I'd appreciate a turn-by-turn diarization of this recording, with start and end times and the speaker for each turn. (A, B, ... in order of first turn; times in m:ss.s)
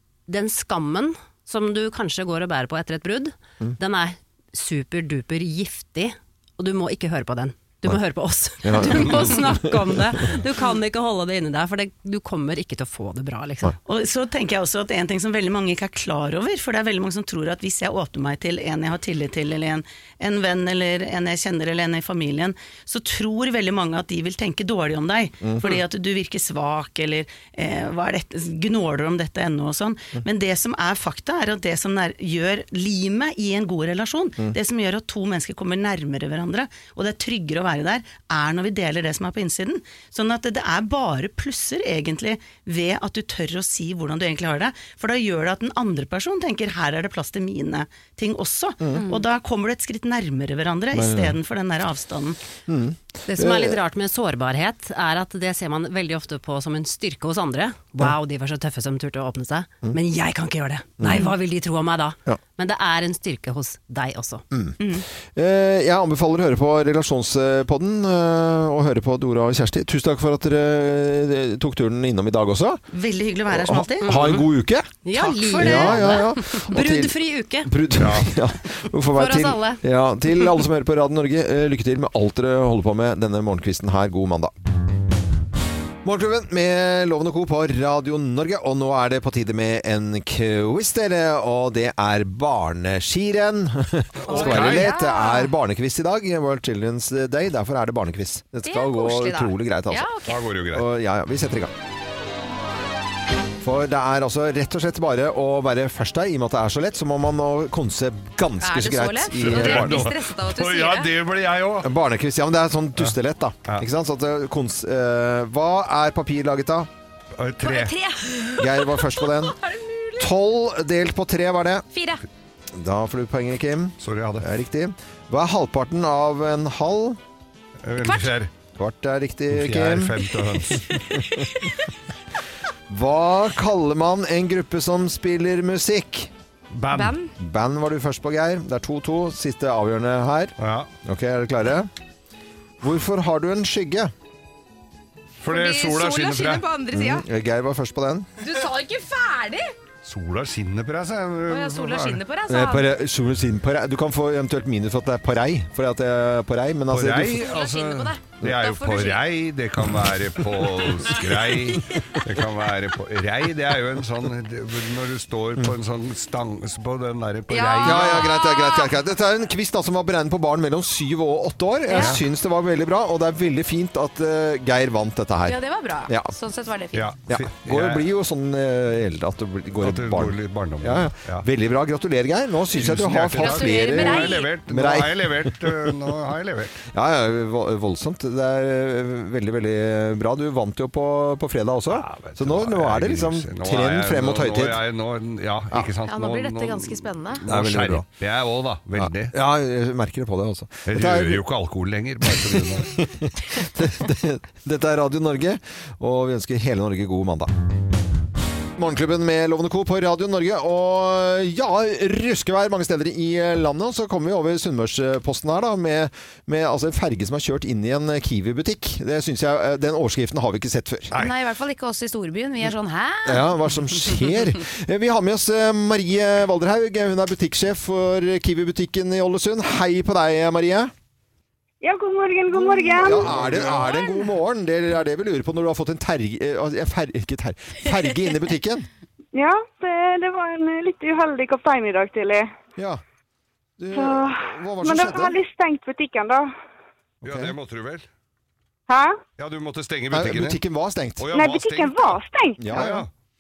0:00.3-0:13.8 A
0:08.6-0:09.8 B
0:13.9-0:52.4 C
0:25.4-0:25.7 B
0:50.9-0:51.4 B
0:52.7-0:53.8 B
0:53.3-1:04.4 A
1:01.0-1:01.3 B
1:05.4-1:12.8 B
1:12.9-1:14.4 C
1:13.5-1:14.9 B
1:14.0-1:14.5 A
1:15.0-1:17.7 A
1:15.1-1:16.2 C
1:15.5-1:17.1 B
1:17.6-1:24.5 B
1:18.0-1:18.3 D
1:19.2-1:19.8 A
1:26.0-1:40.1 B
1:34.2-1:34.9 D
1:34.3-1:35.5 E
1:38.7-1:40.4 E
1:40.3-1:40.9 D
1:40.7-1:41.7 B
1:43.6-1:50.1 B
1:48.6-1:51.1 E
1:49.4-1:51.9 D
1:51.8-1:56.9 B
1:57.4-1:57.9 D
1:57.6-2:00.3 E
1:58.6-1:59.6 B
2:00.2-2:01.9 B
2:01.9-2:02.2 E
2:02.7-2:07.2 B
2:04.0-2:04.4 D
2:07.8-2:08.5 D
2:08.0-2:08.3 E
2:08.8-2:10.2 B
2:09.5-2:11.0 D
2:10.9-2:11.4 E
2:12.9-2:16.3 B
2:16.7-2:17.2 D
2:16.9-2:17.3 E
2:17.4-2:21.9 B
2:20.6-2:20.9 D
2:22.8-2:24.1 B
2:25.4-2:26.7 D
2:25.5-2:27.2 E
2:26.9-2:28.3 B
2:28.4-2:29.7 E
2:30.0-2:32.2 D
2:31.5-2:32.9 E
2:32.5-2:37.5 B
2:36.9-2:48.3 D
2:37.4-2:39.2 E
2:47.5-2:48.9 E
2:47.8-2:55.6 B
2:51.9-2:52.2 E
2:55.5-2:57.1 E
2:56.1-2:56.3 B
2:56.9-2:58.1 D
2:57.3-3:05.9 B
2:59.8-3:01.5 D
3:02.7-3:06.8 D
3:03.4-3:04.5 E
3:06.9-3:14.8 B
3:11.9-3:19.3 D
3:16.0-3:17.4 E
3:17.5-3:18.1 B
3:19.0-3:21.4 B
3:20.9-3:23.1 D
3:22.3-3:27.5 B
3:28.8-3:41.1 B
3:41.2-3:43.5 E
3:43.2-3:50.9 B
3:51.8-3:53.3 F
3:52.6-3:58.9 B
3:53.3-3:53.8 D
3:59.3-4:02.5 F
4:02.8-4:03.0 B
4:03.8-4:05.4 B
4:03.9-4:06.5 F
4:07.2-4:08.1 D
4:07.2-4:07.5 B
4:08.9-4:09.2 F
4:09.4-4:10.6 D
4:10.1-4:11.3 B
4:11.2-4:13.1 D
4:11.3-4:12.8 F
4:12.6-4:13.1 B